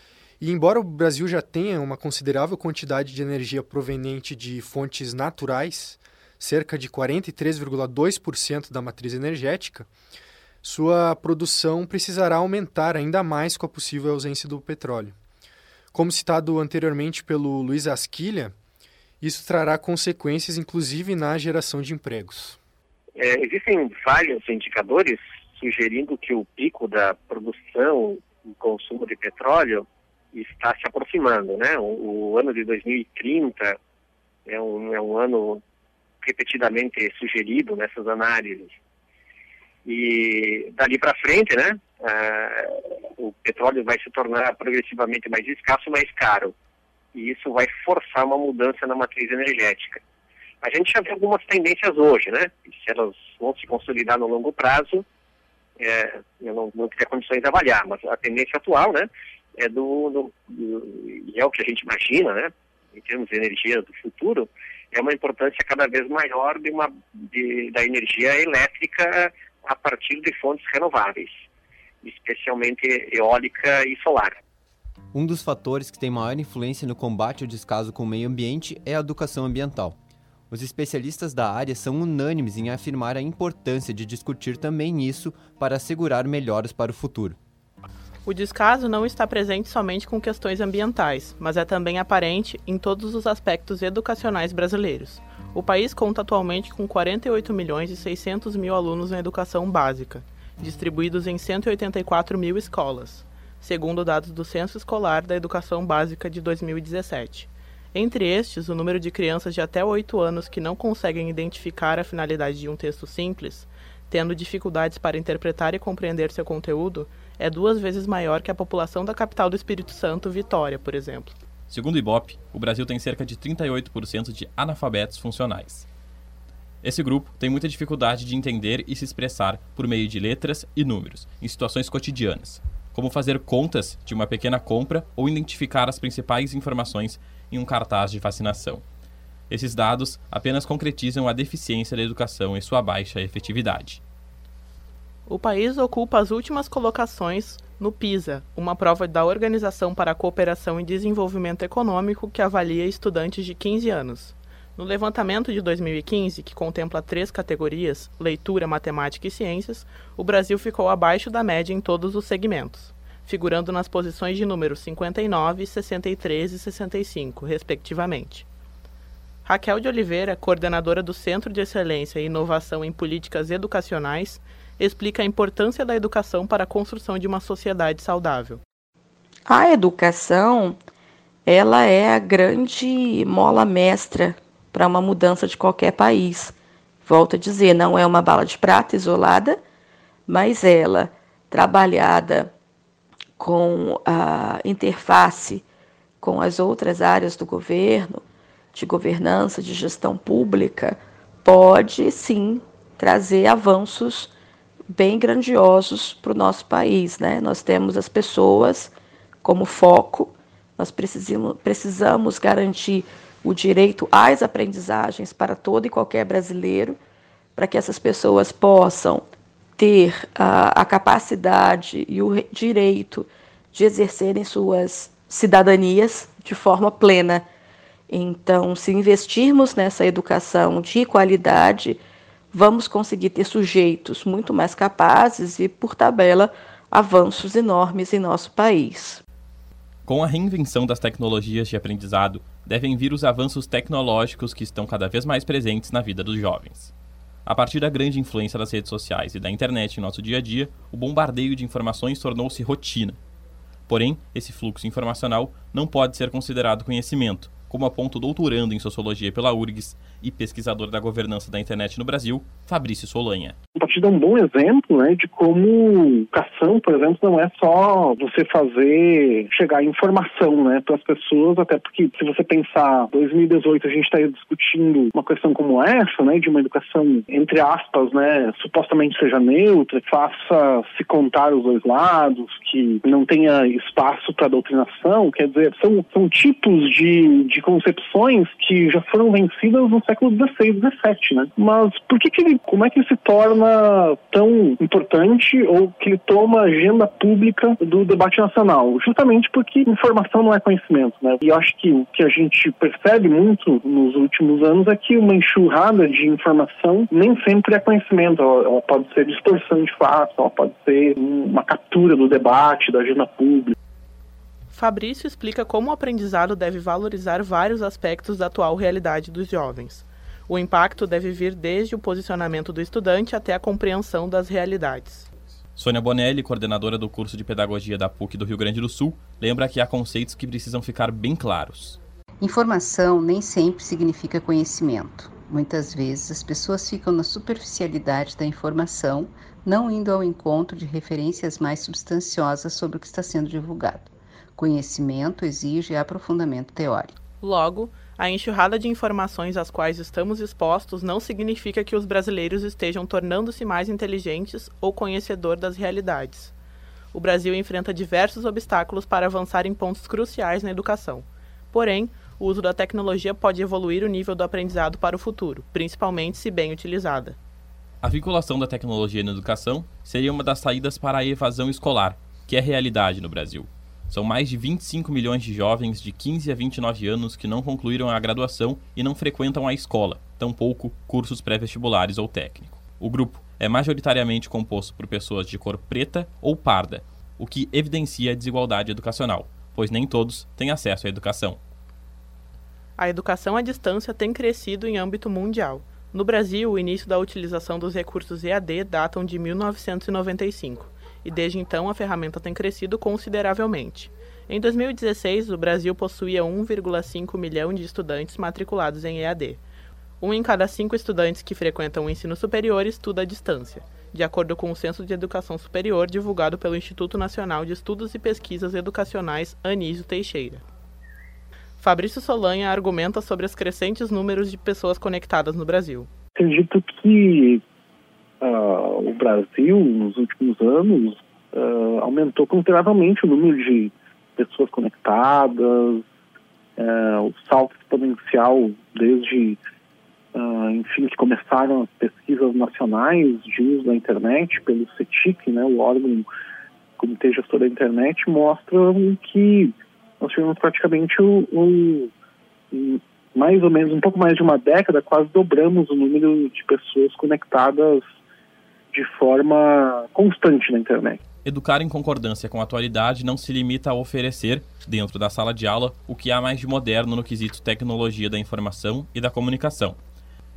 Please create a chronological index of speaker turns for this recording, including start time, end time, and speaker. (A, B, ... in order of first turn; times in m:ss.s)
0:00.4-0:09.9 A
0:10.6-0:15.2 A
0:15.9-0:18.5 A
0:19.2-0:22.6 A
0:23.2-0:33.8 B
0:34.5-0:35.6 B
0:36.2-0:38.8 B
0:39.9-0:46.5 B
0:47.1-0:50.0 B
0:50.6-0:55.0 B
0:55.8-1:11.4 B
1:12.0-1:14.4 B
1:15.1-1:20.0 C
1:20.5-1:27.4 C
1:28.3-2:01.4 D
2:01.7-2:05.9 E
2:06.8-2:18.8 E
2:19.5-2:24.0 E
2:25.3-2:48.5 D
2:49.4-2:58.6 D
2:59.5-3:00.8 F
3:01.5-3:06.5 F
3:07.1-3:09.6 F
3:10.3-3:12.5 F
3:13.4-3:15.6 F
3:16.2-3:18.2 F
3:18.7-3:24.3 F
3:24.9-3:28.9 F
3:29.4-3:37.0 F
3:37.6-3:39.3 F
3:39.8-3:47.4 F
3:48.1-3:52.0 F
3:52.5-3:59.2 F
4:00.1-4:06.9 E
4:07.5-4:13.2 E
4:13.9-4:23.6 E
4:23.8-5:13.7 G
5:14.7-5:25.3 D
5:25.8-5:32.0 E
5:32.4-5:47.1 H
5:47.4-5:56.5 D
5:57.1-6:07.4 D
6:08.0-6:31.6 E
6:33.0-6:49.6 D
6:50.2-7:00.6 D
7:01.8-7:06.1 D
7:06.4-7:07.6 G
7:08.4-7:16.0 G
7:16.8-7:19.6 G
7:20.3-7:26.3 G
7:27.0-7:32.1 G
7:32.7-7:38.1 G
7:38.9-7:41.2 G
7:41.4-7:50.0 E